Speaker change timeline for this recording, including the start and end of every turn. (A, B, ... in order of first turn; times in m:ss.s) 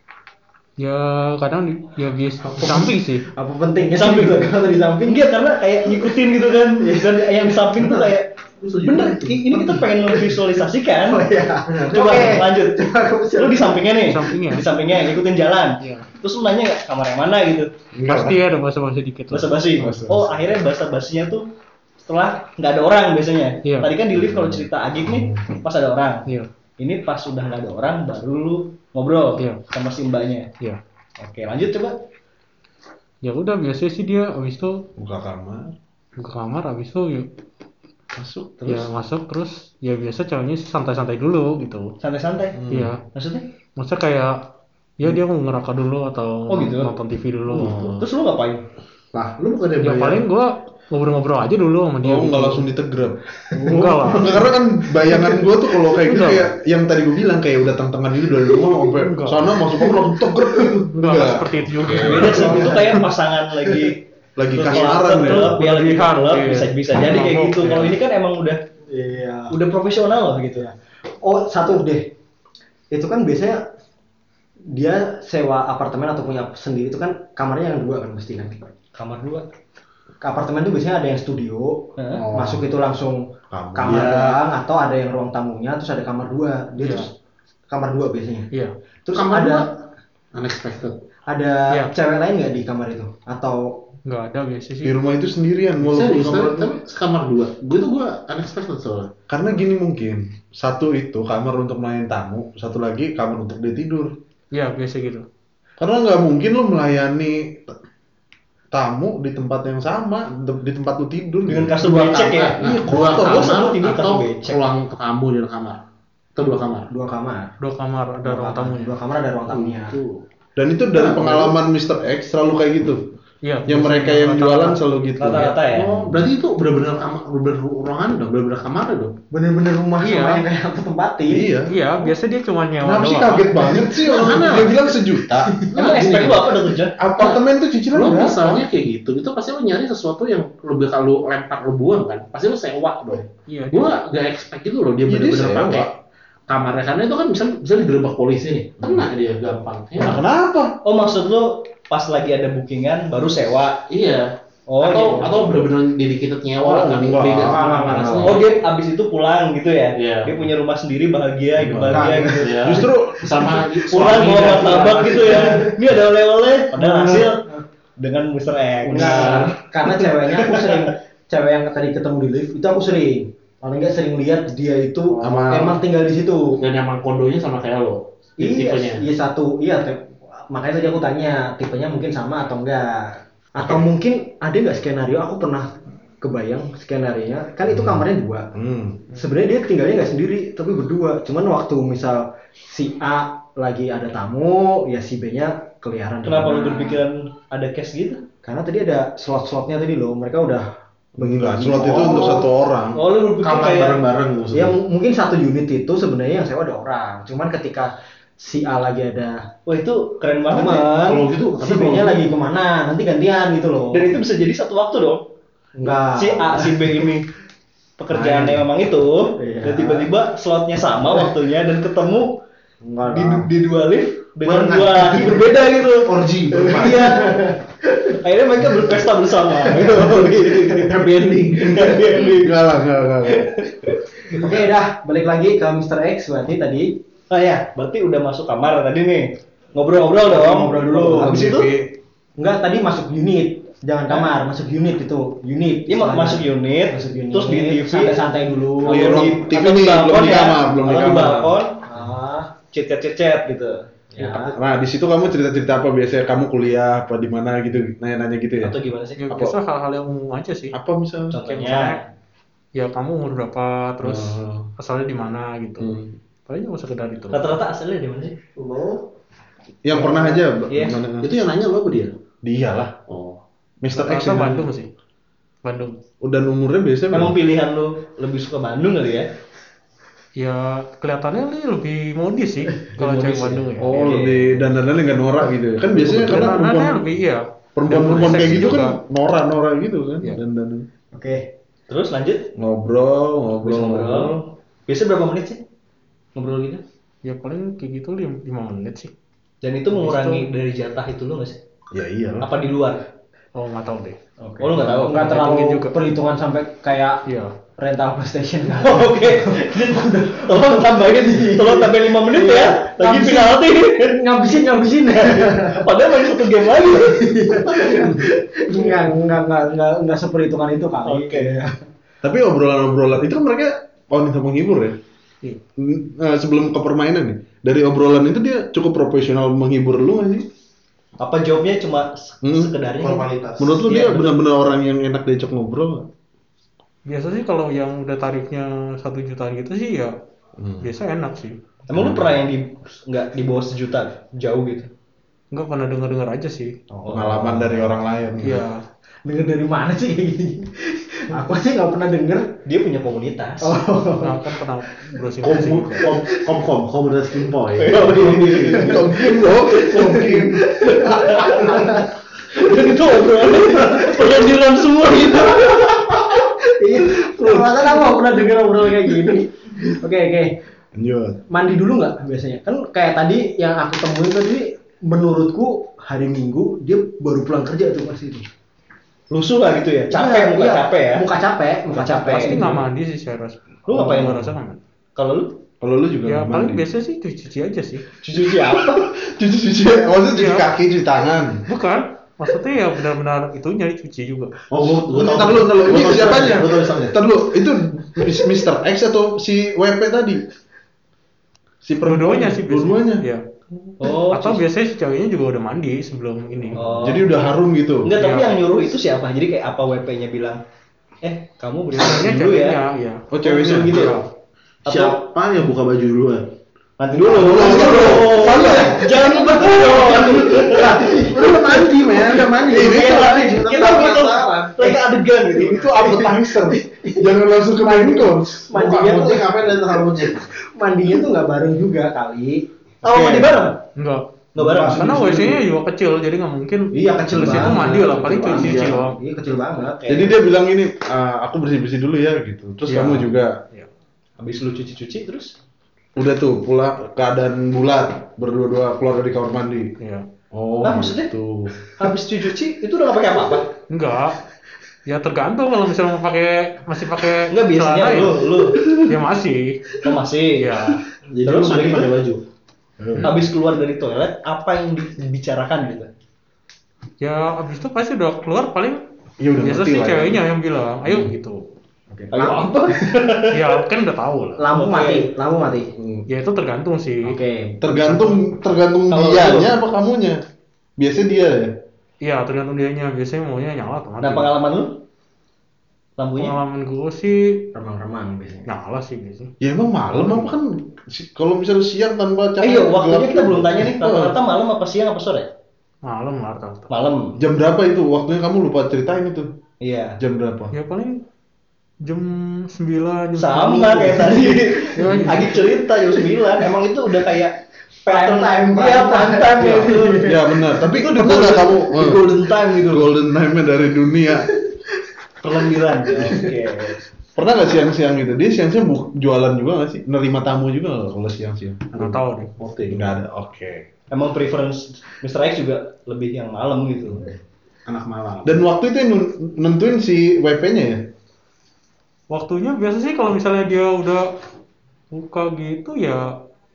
0:00.8-0:03.3 A
0:02.5-0:05.3 B
0:03.9-0:04.5 C
0:05.0-0:08.3 C
0:06.8-0:07.8 B
0:08.6-0:09.8 D
0:08.8-0:11.2 C
0:11.1-0:13.9 B
0:11.8-0:17.7 C
0:14.0-0:14.7 A
0:15.8-0:16.1 A
0:18.0-0:18.4 E
0:18.0-0:19.5 A
0:19.3-0:21.4 C
0:19.8-0:20.6 E
0:22.0-0:26.2 C
0:23.6-0:23.9 A
0:24.1-0:25.5 E
0:26.8-0:30.5 C
0:29.4-0:29.6 A
0:31.2-0:31.9 C
0:33.2-0:34.8 A
0:35.0-0:35.7 E
0:36.2-0:37.3 A
0:38.1-0:38.7 E
0:38.6-0:42.0 A
0:42.0-0:42.6 C
0:42.6-0:42.9 E
0:42.7-0:43.0 A
0:43.1-0:43.4 C
0:43.8-0:44.4 A
0:45.0-0:48.0 A
0:46.5-0:46.9 C
0:47.5-0:48.0 E
0:47.6-0:48.6 C
0:49.1-0:50.3 D
0:49.8-0:52.7 A
0:52.0-0:53.2 E
0:53.5-0:54.3 B
0:53.6-0:54.4 A
0:54.1-1:02.4 E
0:56.0-0:56.5 A
0:58.9-0:59.5 A
0:59.8-1:00.6 B
1:00.9-1:03.0 A
1:01.8-1:02.2 D
1:02.0-1:08.6 C
1:02.2-1:03.0 B
1:04.4-1:05.6 E
1:04.7-1:08.0 A
1:08.9-1:09.5 B
1:09.5-1:10.7 C
1:11.2-1:12.1 B
1:12.9-1:13.6 B
1:14.7-1:18.7 B
1:18.9-1:19.4 C
1:20.2-1:27.1 B
1:22.0-1:22.2 C
1:23.5-1:24.1 E
1:23.8-1:24.4 D
1:26.8-1:27.1 A
1:27.7-1:28.5 B
1:29.0-1:29.6 B
1:29.1-1:29.7 D
1:30.3-1:31.0 D
1:31.3-1:33.7 B
1:34.0-1:35.0 A
1:34.8-1:36.7 E
1:35.8-1:39.1 D
1:39.3-1:44.1 E
1:44.5-1:45.2 A
1:45.8-1:47.7 E
1:48.7-1:51.8 E
1:51.5-1:54.6 C
1:51.8-1:55.8 D
1:52.6-1:53.4 E
1:56.4-1:56.9 D
1:56.9-1:57.5 B
1:57.6-1:58.9 A
1:58.2-2:00.0 B
1:59.5-2:00.2 D
2:00.6-2:03.0 E
2:01.0-2:01.5 D
2:03.4-2:05.6 A
2:03.7-2:06.2 E
2:05.2-2:05.9 C
2:05.7-2:09.2 D
2:09.3-2:11.5 B
2:10.0-2:10.4 A
2:11.3-2:11.8 E
2:11.6-2:13.6 A
2:12.8-2:15.5 E
2:13.6-2:14.6 B
2:14.0-2:14.7 D
2:15.3-2:15.8 B
2:15.7-2:17.0 C
2:15.7-2:17.4 D
2:17.0-2:18.6 E
2:17.9-2:25.9 D
2:23.5-2:23.9 A
2:25.1-2:25.9 E
2:26.5-2:30.2 D
2:30.0-2:30.7 E
2:30.8-2:33.8 C
2:33.9-2:38.5 D
2:34.7-2:35.6 C
2:35.1-2:35.4 B
2:36.6-2:38.2 E
2:36.7-2:38.4 B
2:38.2-2:42.7 C
2:39.9-2:40.4 D
2:41.6-2:43.6 E
2:41.8-2:45.5 D
2:41.9-2:42.9 B
2:43.8-2:47.4 C
2:44.3-2:45.8 B
2:48.0-2:50.9 C
2:48.9-2:49.5 D
2:48.9-2:56.6 B
2:55.2-2:55.7 D
2:55.2-2:55.8 E
2:56.6-2:59.0 D
2:58.4-3:05.7 B
3:06.2-3:08.5 B
3:07.7-3:08.0 E
3:08.6-3:09.0 E
3:09.1-3:17.0 B
3:16.2-3:18.2 C
3:18.4-3:22.5 B
3:21.2-3:23.0 E
3:22.9-3:24.0 C
3:23.4-3:24.8 D
3:24.5-3:29.4 B
3:29.7-3:30.9 C
3:30.5-3:34.2 B
3:31.0-3:32.3 D
3:33.9-3:35.2 C
3:35.8-3:37.1 B
3:36.0-3:37.3 C
3:38.0-3:42.4 C
3:38.1-3:38.6 E
3:39.4-3:40.1 B
3:42.8-3:43.5 B
3:43.1-3:47.5 C
3:44.4-3:47.0 D
3:46.7-3:48.2 B
3:48.2-3:52.7 C
3:49.6-3:50.6 B
3:50.6-3:52.2 D
3:52.2-3:53.5 E
3:53.2-3:54.5 C
3:54.3-3:57.0 B
3:57.3-4:01.7 C
4:00.2-4:01.4 B
4:01.1-4:01.9 E
4:02.4-4:09.3 B
4:05.9-4:08.2 C
4:08.8-4:11.8 C
4:08.8-4:11.6 E
4:11.8-4:12.5 B
4:12.7-4:14.5 C
4:14.2-4:14.5 B
4:14.6-4:18.7 E
4:18.6-4:19.2 C
4:19.2-4:20.7 A
4:19.3-4:19.6 E
4:20.7-4:21.3 E
4:21.3-4:22.0 C
4:21.4-4:22.0 A
4:22.7-4:25.9 A
4:24.1-4:24.6 E
4:26.5-4:27.6 A
4:27.3-4:28.4 C
4:28.6-4:28.9 D
4:29.8-4:31.3 E
4:30.7-4:31.0 C
4:31.2-4:32.1 D
4:32.4-4:33.0 E
4:33.1-4:33.4 D
4:33.8-4:34.7 E
4:33.9-4:34.9 A
4:35.6-4:36.0 A
4:36.2-4:37.4 E
4:37.1-4:39.3 C
4:40.4-4:44.2 A
4:43.0-4:44.7 C
4:43.8-4:47.2 E
4:45.9-4:49.0 A
4:47.8-4:50.8 E
4:51.1-4:51.5 B
4:51.9-4:52.5 C
4:52.6-4:54.4 E
4:53.6-4:55.6 C
4:56.3-4:56.8 C
4:57.2-4:59.1 A
4:59.6-5:01.6 C
5:00.0-5:00.5 A
5:01.9-5:02.5 E
5:02.4-5:03.0 C
5:03.5-5:04.2 A
5:04.4-5:07.2 B
5:04.6-5:05.3 C
5:04.8-5:06.0 A
5:07.2-5:07.5 A
5:07.8-5:21.8 B
5:08.8-5:14.2 C
5:15.2-5:18.1 C
5:21.0-5:21.5 C
5:22.2-5:25.0 E
5:25.8-5:30.4 E
5:31.2-5:34.4 C
5:32.4-5:32.7 E
5:33.0-5:33.8 D
5:33.6-5:36.1 E
5:37.0-5:40.1 A
5:40.6-5:40.9 E
5:40.8-5:41.6 A
5:41.9-5:44.9 C
5:41.9-5:42.4 E
5:45.5-5:46.7 A
5:47.0-5:47.9 C
5:47.1-5:48.7 E
5:48.4-5:48.8 A
5:49.2-5:52.5 B
5:52.6-5:53.8 C
5:53.6-5:54.6 B
5:54.2-5:56.2 A
5:55.4-5:59.0 D
5:57.8-6:00.2 C
5:58.2-6:02.1 B
5:58.5-6:00.8 E
6:00.8-6:06.2 C
6:02.8-6:04.2 B
6:05.2-6:10.6 B
6:07.0-6:08.1 C
6:10.9-6:11.4 E
6:11.5-6:18.4 B
6:19.3-6:21.2 C
6:20.1-6:22.8 B
6:21.9-6:22.7 C
6:22.1-6:24.8 A
6:23.9-6:24.5 C
6:23.9-6:24.2 E
6:25.2-6:25.6 C
6:25.8-6:26.8 E
6:26.2-6:28.0 A
6:28.2-6:29.1 C
6:28.4-6:31.6 E
6:30.3-6:30.7 A
6:31.6-6:34.6 A
6:34.7-6:37.2 D
6:34.9-6:40.4 E
6:36.1-6:36.6 C
6:41.8-6:43.2 E
6:42.0-6:43.4 A
6:44.0-6:44.6 C
6:44.0-6:47.0 A
6:46.8-6:47.3 C
6:47.0-6:48.1 E
6:48.0-6:50.6 C
6:48.1-6:48.6 A
6:51.2-6:52.8 C
6:51.9-6:54.3 A
6:53.3-6:54.1 E
6:53.4-6:54.2 C
6:54.8-6:56.4 D
6:54.8-6:55.2 C
6:57.0-7:01.5 C
6:57.2-6:59.2 B
6:57.2-7:00.4 E
6:59.8-7:01.5 B
7:01.2-7:04.6 E
7:01.3-7:04.8 D
7:02.5-7:06.0 C
7:05.5-7:08.7 E
7:05.8-7:12.6 B
7:08.7-7:10.5 D
7:13.0-7:13.8 C
7:13.0-7:13.6 E
7:13.9-7:14.2 A
7:14.6-7:15.2 C
7:14.6-7:15.6 B
7:14.8-7:19.2 A
7:16.9-7:20.3 B
7:17.3-7:18.8 E
7:18.3-7:18.9 D
7:20.0-7:20.4 C
7:20.1-7:23.6 E
7:22.9-7:23.9 A
7:24.4-7:25.5 C
7:26.2-7:29.9 E
7:30.0-7:30.2 A
7:30.5-7:31.7 E
7:30.8-7:31.3 C
7:32.0-7:33.7 C
7:33.9-7:34.4 A
7:35.0-7:40.0 A
7:37.5-7:38.9 C
7:40.0-7:40.9 C
7:40.5-7:41.0 A
7:41.3-7:42.4 D
7:41.4-7:42.2 C
7:43.0-7:43.3 E
7:43.1-7:43.4 A
7:43.2-7:46.1 C
7:47.2-7:49.0 A
7:49.4-7:50.4 E
7:49.6-7:51.7 A
7:52.1-7:53.2 B
7:52.3-7:53.8 C
7:53.5-7:54.6 A
7:54.6-7:55.9 B
7:54.7-7:55.3 C
7:56.0-7:56.2 E
7:56.3-7:58.4 A
7:57.2-7:57.8 B
7:57.8-8:00.4 E
7:59.1-7:59.7 C
8:01.0-8:01.7 E
8:02.2-8:04.6 A
8:04.2-8:05.0 C
8:06.2-8:06.5 C
8:06.3-8:07.7 A
8:07.7-8:08.7 B
8:08.6-8:09.5 A
8:09.6-8:14.4 E
8:12.6-8:15.5 C
8:16.0-8:16.9 A
8:16.9-8:17.4 C
8:17.4-8:19.5 E
8:19.8-8:20.2 C
8:20.2-8:20.7 E
8:20.7-8:21.2 A
8:22.0-8:25.7 A
8:23.4-8:33.1 C
8:25.9-8:26.4 B
8:28.1-8:30.5 B
8:30.2-8:34.5 E
8:35.4-8:37.0 C
8:36.2-8:36.5 B
8:37.4-8:42.2 E
8:42.0-8:42.5 A
8:42.6-8:43.1 D
8:42.9-8:43.8 E
8:44.1-8:47.3 C
8:47.8-8:48.6 D
8:48.4-8:51.0 E
8:52.3-8:54.3 A
8:55.1-8:56.2 A